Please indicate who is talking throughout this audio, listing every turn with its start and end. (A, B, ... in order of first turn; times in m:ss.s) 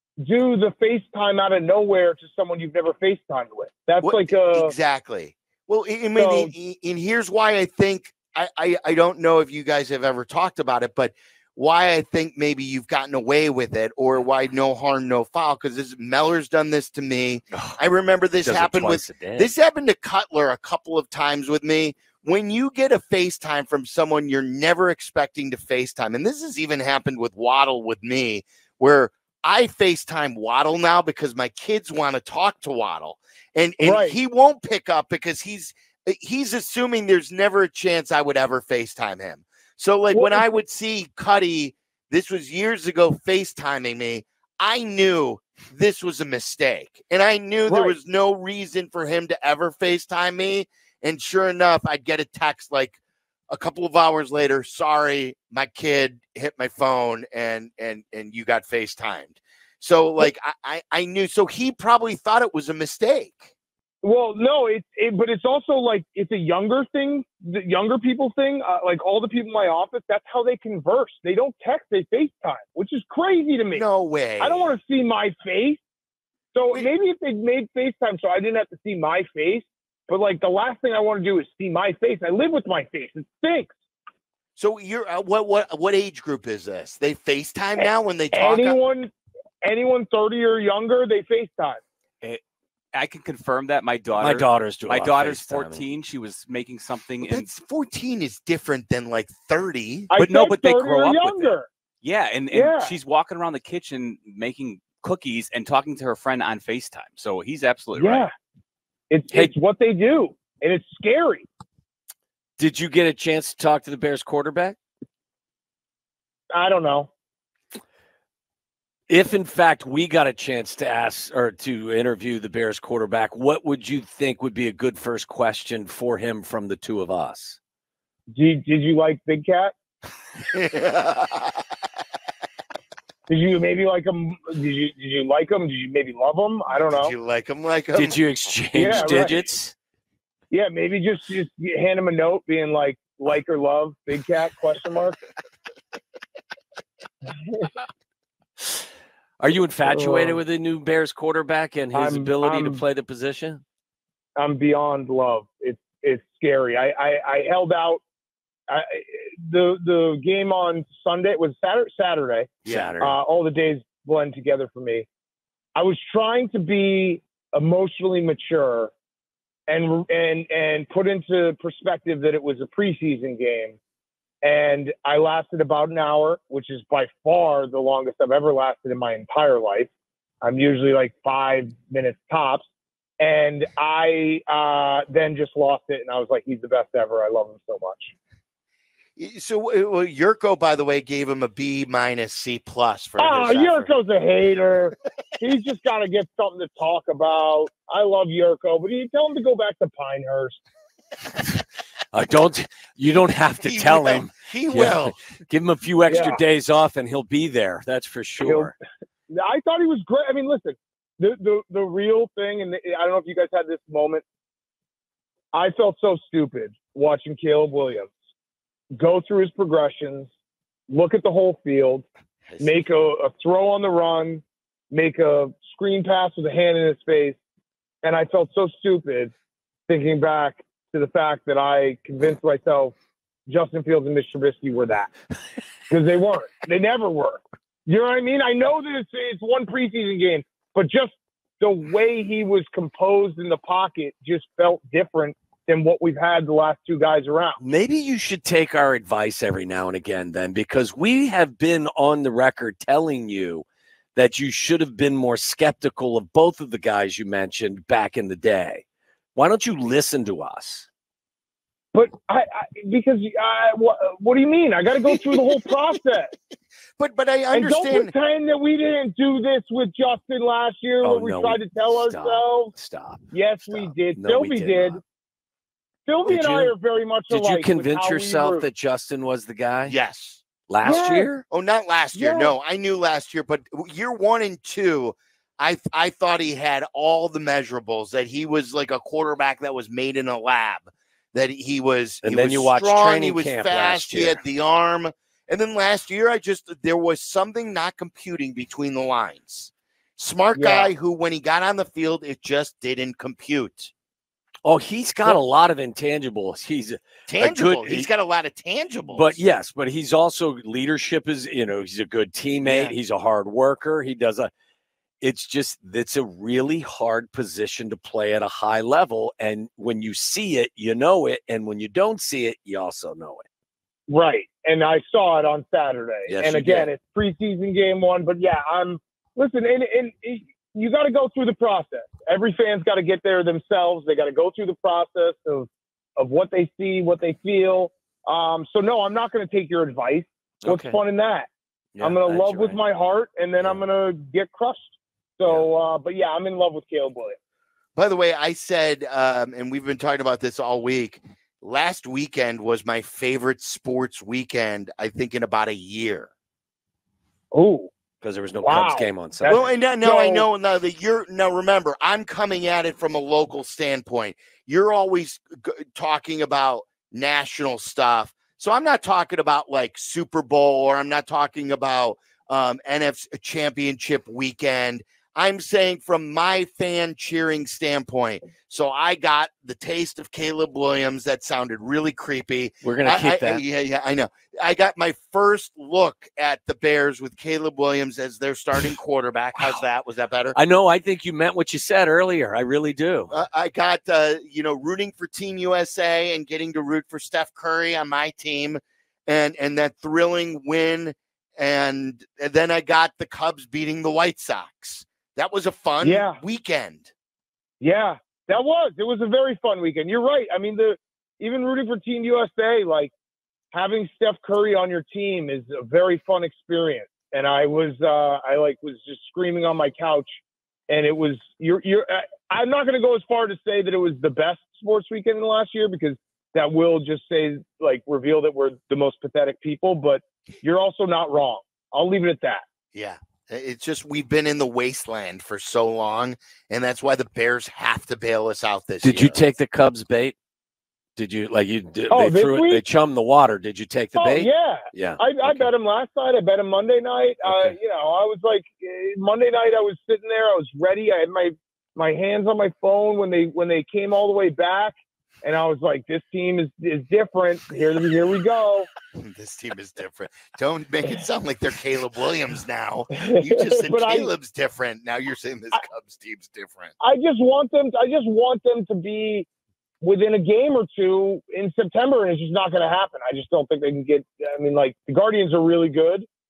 0:00.2-0:04.7 A
0:04.0-0:53.0 B
0:06.2-0:06.5 A
0:17.5-0:17.8 C
0:18.4-0:19.5 C
0:33.8-0:34.2 A
0:40.1-0:40.4 A
0:47.7-0:48.0 A
0:53.5-1:03.5 B
1:04.0-1:13.8 A
1:13.7-1:14.7 B
1:14.4-1:15.8 A
1:16.5-1:23.7 A
1:24.6-1:28.8 B
1:28.3-1:29.1 A
1:29.6-1:31.8 A
1:32.9-1:37.5 D
1:34.2-1:35.8 C
1:37.2-1:40.1 B
1:40.1-1:41.7 A
1:40.2-1:48.3 D
1:42.5-1:43.0 A
1:47.9-1:48.3 A
1:49.1-1:51.4 A
1:52.6-1:54.8 C
1:56.5-1:57.1 A
1:59.1-2:07.6 C
2:08.3-2:09.7 A
2:10.5-2:11.5 B
2:13.3-2:17.1 A
2:16.9-2:18.2 B
2:17.9-2:19.7 C
2:18.7-2:19.4 A
2:20.5-2:25.2 A
2:29.4-2:33.6 C
2:29.8-2:30.4 A
2:31.9-2:32.8 A
2:34.4-2:38.0 A
2:38.7-2:45.1 A
2:42.6-2:43.2 C
2:42.6-2:42.9 B
2:45.7-2:48.9 A
2:49.7-2:53.8 A
2:54.4-2:59.9 A
3:00.4-3:02.6 A
3:03.2-3:08.1 A
3:09.2-3:13.9 B
3:13.2-3:20.6 A
3:22.1-3:28.7 C
3:23.6-3:25.2 B
3:26.1-3:26.4 A
3:28.4-3:28.7 A
3:29.3-3:34.2 A
3:35.5-3:38.1 A
3:39.0-3:40.3 A
3:40.9-3:42.0 A
3:42.6-3:47.4 A
3:48.0-3:49.3 A
3:49.9-3:52.9 A
3:53.5-3:55.1 A
3:55.9-4:07.6 A
4:07.6-4:18.8 C
4:19.4-4:20.9 C
4:21.9-4:26.4 A
4:27.0-4:28.1 B
4:27.5-4:32.7 A
4:31.0-4:35.0 C
4:33.3-4:35.0 A
4:36.1-4:38.7 A
4:36.3-4:36.8 C
4:37.3-4:39.9 C
4:39.8-4:40.9 B
4:40.7-4:41.4 C
4:40.8-4:41.3 A
4:41.5-5:03.9 B
4:42.1-4:42.5 A
4:52.2-4:54.4 C
5:00.5-5:00.9 A
5:04.6-5:08.1 C
5:07.3-5:09.4 B
5:09.1-5:14.5 C
5:12.6-5:12.9 B
5:15.2-5:23.4 C
5:24.1-5:41.5 A
5:26.3-5:26.9 C
5:40.6-5:41.0 C
5:42.0-5:42.8 C
5:42.0-5:44.9 A
5:45.4-5:47.4 A
5:48.0-5:56.3 B
5:57.5-5:57.9 A
5:58.2-5:59.6 C
5:58.6-6:00.4 A
5:59.5-6:30.6 B
6:22.8-6:23.6 C
6:30.5-6:33.3 C
6:33.3-6:47.1 B
6:46.0-6:46.4 A
6:47.8-6:53.1 A
6:53.7-7:00.3 A
7:00.9-7:12.6 A
7:12.9-7:19.4 B
7:19.0-7:20.3 C
7:21.2-7:25.7 C
7:22.1-7:22.8 A
7:24.2-7:38.9 A
7:27.4-7:27.8 C
7:39.1-7:46.9 B
7:43.1-7:44.3 A
7:47.0-7:49.4 A
7:50.0-7:56.2 A